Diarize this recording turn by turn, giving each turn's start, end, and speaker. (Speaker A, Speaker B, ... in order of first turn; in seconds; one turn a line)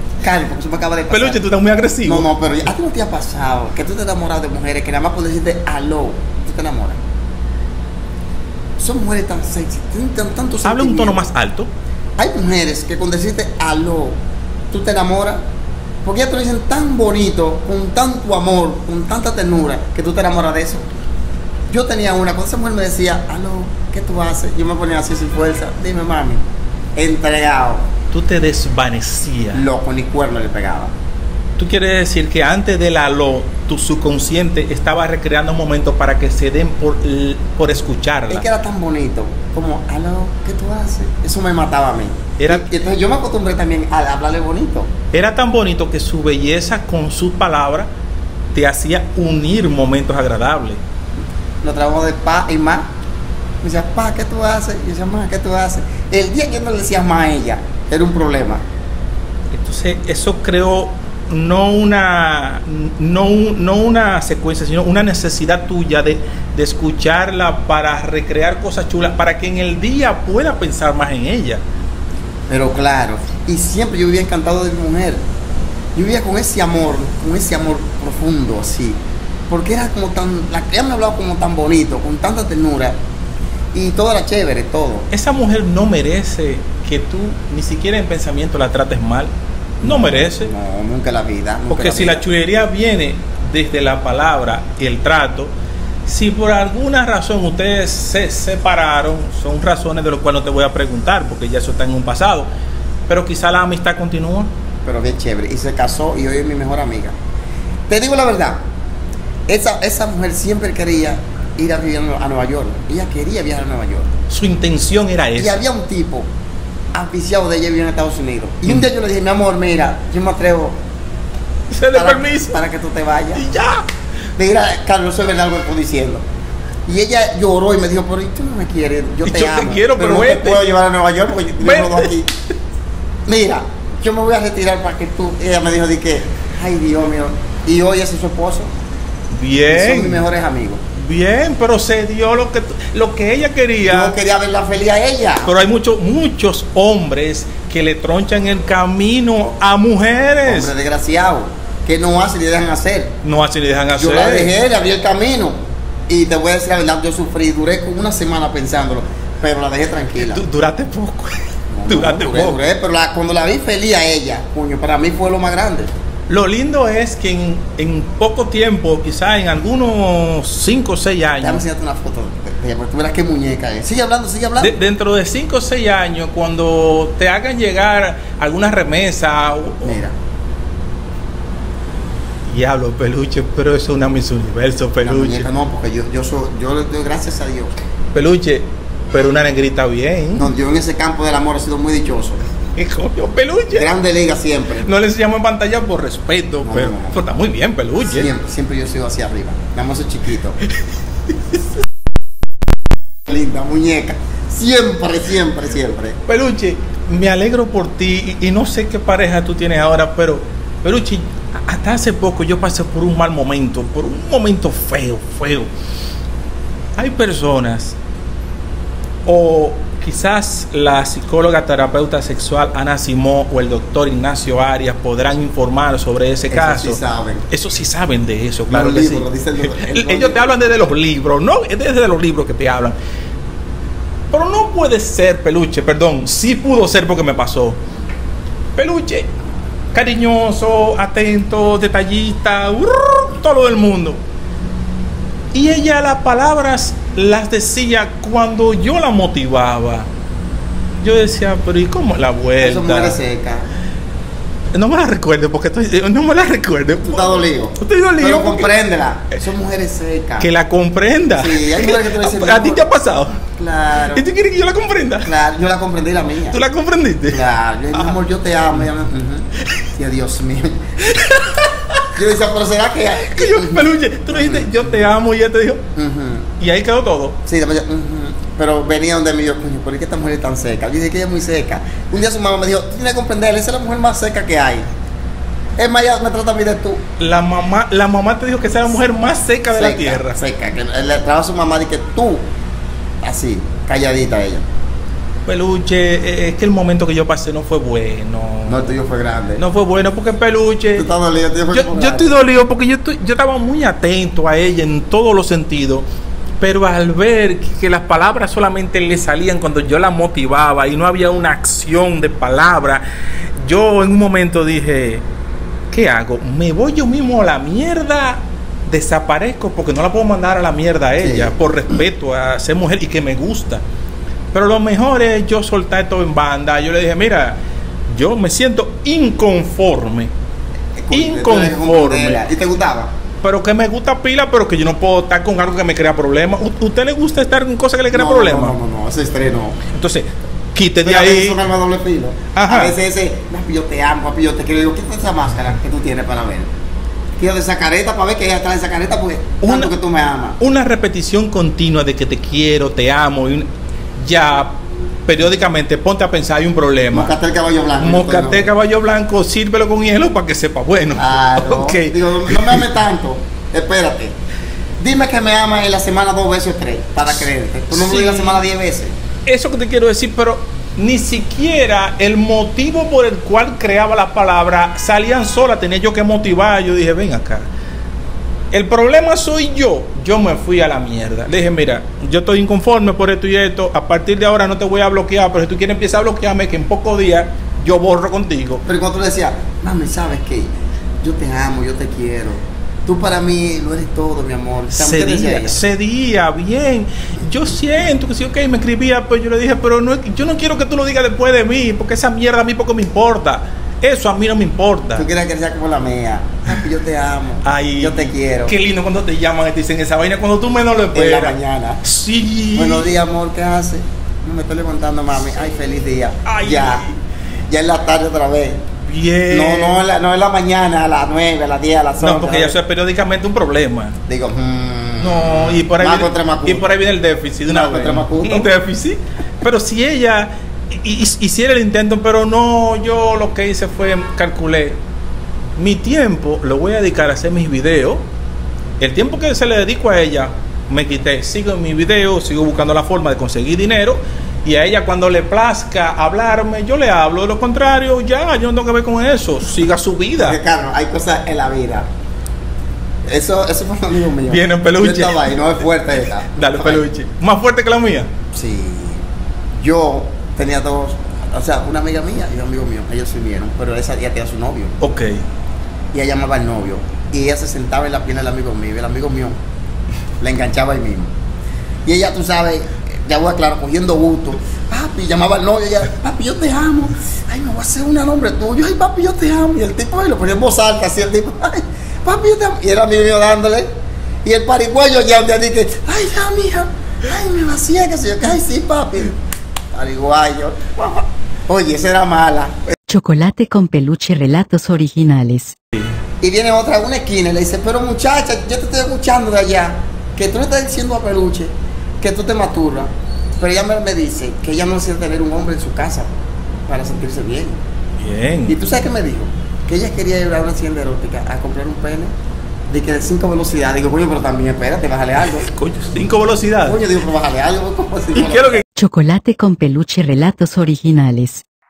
Speaker A: 0.2-1.4
Speaker B: 1.1-2.3
Speaker A: 2.0-7.0
Speaker A: 8.8-11.2
Speaker B: 10.6-11.7
Speaker A: 12.2-14.2
Speaker A: 14.7-15.4
Speaker A: 16.0-20.9
Speaker A: 21.7-26.4
Speaker A: 27.0-27.8
Speaker B: 28.1-29.6
Speaker A: 29.5-30.9
Speaker B: 31.6-38.5
Speaker A: 38.3-44.9
Speaker B: 42.4-42.7
Speaker B: 45.1-47.9
Speaker B: 48.5-50.8
Speaker A: 51.6-52.9
Speaker A: 53.6-58.6
Speaker B: 59.5-71.6
Speaker A: 72.5-75.2
Speaker A: 76.0-79.0
Speaker A: 79.5-83.0
Speaker A: 83.7-85.1
Speaker B: 85.1-90.5
Speaker A: 89.8-92.2
Speaker B: 91.7-95.5
Speaker B: 96.0-102.5
Speaker B: 103.1-104.5
Speaker A: 104.8-107.2
Speaker A: 107.9-108.6
Speaker A: 109.5-114.1
Speaker B: 114.3-115.6
Speaker A: 115.4-116.3
Speaker A: 116.9-120.8
Speaker B: 121.7-122.6
Speaker A: 121.9-123.5
Speaker B: 123.3-123.9
Speaker A: 124.4-126.2
Speaker A: 126.9-132.3
Speaker B: 129.2-130.7
Speaker B: 131.6-132.1
Speaker A: 133.3-138.7
Speaker B: 139.3-140.2
Speaker A: 139.7-140.8
Speaker B: 140.9-144.2
Speaker A: 143.8-145.6
Speaker B: 145.4-150.7
Speaker A: 150.5-153.2
Speaker B: 153.2-154.5
Speaker A: 153.9-160.4
Speaker B: 160.2-162.6
Speaker A: 161.7-165.9
Speaker B: 166.3-171.7
Speaker A: 171.4-174.8
Speaker B: 174.6-180.0
Speaker A: 179.8-180.2
Speaker B: 182.5-185.5
Speaker A: 185.0-187.7
Speaker B: 188.1-190.5
Speaker A: 190.3-192.5
Speaker B: 192.8-193.9
Speaker A: 193.7-194.9
Speaker B: 194.8-198.3
Speaker A: 196.6-197.2
Speaker A: 198.1-200.6
Speaker A: 203.3-206.2
Speaker B: 206.3-215.7
Speaker B: 217.0-218.0
Speaker B: 219.2-233.0
Speaker A: 226.5-227.5
Speaker A: 228.7-230.6
Speaker B: 234.3-237.8
Speaker B: 238.8-239.3
Speaker B: 239.9-244.2
Speaker B: 245.5-250.1
Speaker B: 251.0-253.2
Speaker A: 252.6-253.7
Speaker B: 254.7-258.7
Speaker A: 257.1-260.5
Speaker B: 260.4-263.4
Speaker A: 261.4-262.9
Speaker A: 263.5-264.3
Speaker B: 264.1-265.3
Speaker A: 265.2-266.6
Speaker B: 266.5-267.4
Speaker A: 267.3-270.8
Speaker B: 271.0-272.1
Speaker A: 272.1-274.9
Speaker B: 273.2-275.8
Speaker A: 276.0-276.5
Speaker B: 276.6-277.4
Speaker A: 277.5-284.9
Speaker A: 285.8-287.0
Speaker B: 287.2-290.4
Speaker A: 289.7-292.4
Speaker A: 293.2-294.6
Speaker B: 295.5-299.0
Speaker A: 298.7-299.6
Speaker B: 299.6-301.1
Speaker A: 301.0-302.4
Speaker B: 301.7-306.1
Speaker B: 306.6-313.0
Speaker B: 313.6-315.2
Speaker B: 315.9-323.8
Speaker A: 321.2-321.6
Speaker B: 324.5-330.3
Speaker A: 331.0-333.1
Speaker B: 331.1-332.4
Speaker B: 333.4-338.8
Speaker A: 338.1-339.8
Speaker B: 339.9-341.6
Speaker A: 341.0-346.7
Speaker B: 342.5-343.0
Speaker A: 347.4-350.6
Speaker B: 349.6-349.9
Speaker B: 350.6-357.3
Speaker A: 357.1-358.7
Speaker B: 358.0-362.9
Speaker A: 361.2-364.3
Speaker A: 365.0-369.1
Speaker B: 367.9-368.6
Speaker B: 369.5-377.7
Speaker B: 378.7-388.8
Speaker A: 388.9-390.7
Speaker A: 391.2-395.8
Speaker B: 394.9-405.3
Speaker A: 405.2-408.7
Speaker B: 407.6-413.1
Speaker A: 411.1-412.0
Speaker A: 412.8-417.1
Speaker B: 416.4-417.2
Speaker A: 417.7-418.9
Speaker B: 419.0-420.0
Speaker A: 419.5-422.8
Speaker B: 422.2-424.2
Speaker A: 424.3-426.9
Speaker B: 425.2-435.0
Speaker A: 427.7-428.7
Speaker B: 435.8-438.2
Speaker B: 439.0-450.6
Speaker A: 450.4-452.1
Speaker A: 453.3-457.1
Speaker B: 454.5-455.9
Speaker B: 456.5-458.3
Speaker A: 458.5-459.2
Speaker A: 459.8-465.0
Speaker B: 465.0-465.4
Speaker A: 466.1-469.6
Speaker A: 470.4-471.3
Speaker A: 472.1-483.9
Speaker A: 484.4-489.4
Speaker A: 489.9-492.8
Speaker C: 493.1-495.7
Speaker A: 496.4-506.3
Speaker A: 506.9-507.8
Speaker B: 508.2-508.8
Speaker A: 508.7-512.3
Speaker A: 512.9-515.7
Speaker B: 515.5-517.0
Speaker A: 516.9-518.8
Speaker B: 518.3-518.9
Speaker C: 519.0-521.6